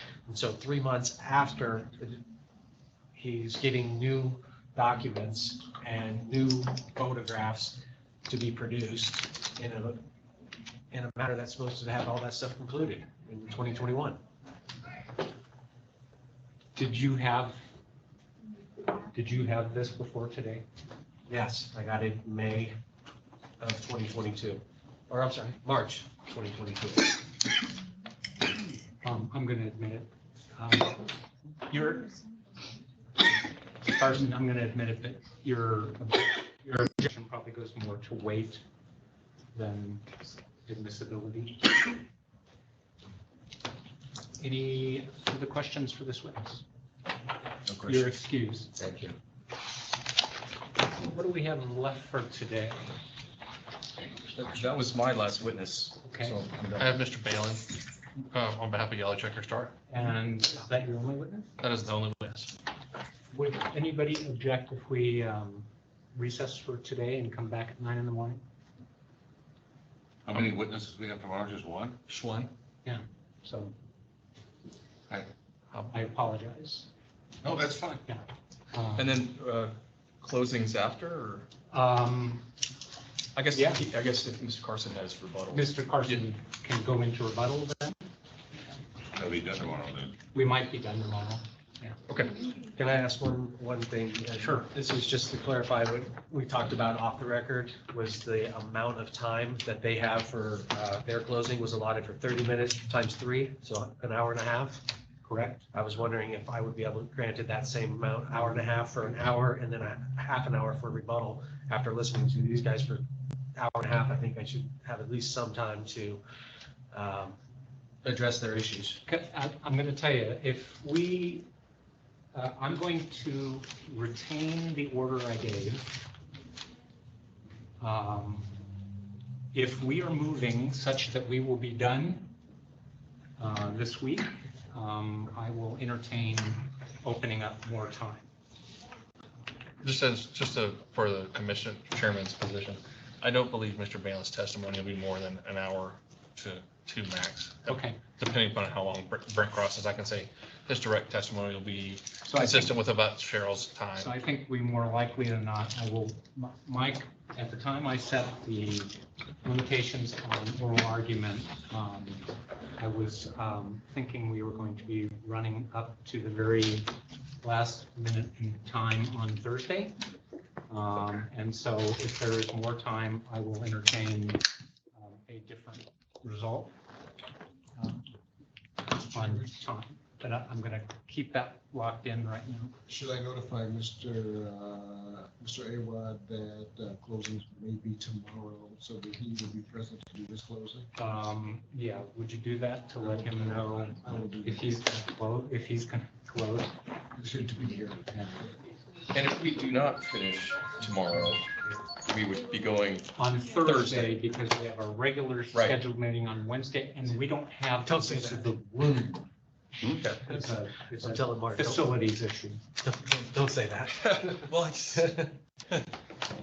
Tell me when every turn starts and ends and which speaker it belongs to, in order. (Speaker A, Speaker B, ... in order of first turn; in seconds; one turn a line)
Speaker A: 0.3-2.2
Speaker A: 3.1-10.0
Speaker A: 10.9-14.2
Speaker B: 16.8-17.6
Speaker B: 19.1-20.6
Speaker A: 21.3-22.8
Speaker A: 23.6-27.2
Speaker B: 29.0-31.1
Speaker B: 31.7-32.1
Speaker B: 33.8-38.6
Speaker B: 39.5-41.6
Speaker B: 44.4-46.6
Speaker C: 47.7-48.0
Speaker B: 47.8-48.7
Speaker C: 48.8-49.1
Speaker B: 50.9-52.8
Speaker C: 54.4-57.0
Speaker B: 56.0-56.4
Speaker D: 56.8-57.7
Speaker D: 58.3-59.8
Speaker B: 59.9-61.5
Speaker D: 61.6-62.5
Speaker B: 63.3-68.4
Speaker E: 70.3-72.1
Speaker D: 72.1-72.5
Speaker B: 72.8-73.8
Speaker B: 75.9-76.9
Speaker E: 77.4-78.0
Speaker B: 78.1-79.1
Speaker C: 79.0-81.5
Speaker B: 81.7-82.5
Speaker C: 83.4-86.2
Speaker B: 83.5-83.8
Speaker B: 85.5-88.0
Speaker E: 89.1-90.1
Speaker B: 90.3-92.0
Speaker A: 92.6-104.8
Speaker B: 94.4-94.7
Speaker B: 105.2-105.6
Speaker A: 105.7-116.2
Speaker A: 116.9-117.4
Speaker A: 118.0-119.0
Speaker B: 119.1-121.5
Speaker B: 122.3-126.0
Speaker B: 127.8-128.5
Speaker B: 129.5-132.3
Speaker B: 133.4-138.3
Speaker D: 139.8-154.1
Speaker B: 147.7-148.0
Speaker B: 152.2-152.7
Speaker B: 154.0-166.9
Speaker B: 167.4-170.0
Speaker B: 170.7-176.7
Speaker B: 177.8-178.1
Speaker B: 179.0-182.8
Speaker F: 182.9-190.9
Speaker B: 191.0-196.7
Speaker F: 193.0-194.8
Speaker F: 197.2-198.5
Speaker B: 198.1-198.5
Speaker C: 199.1-203.1
Speaker B: 203.2-208.9
Speaker C: 203.6-204.1
Speaker A: 207.8-209.2
Speaker C: 209.8-210.3
Speaker B: 210.2-212.6
Speaker A: 210.3-212.0
Speaker A: 212.8-215.3
Speaker C: 214.5-215.1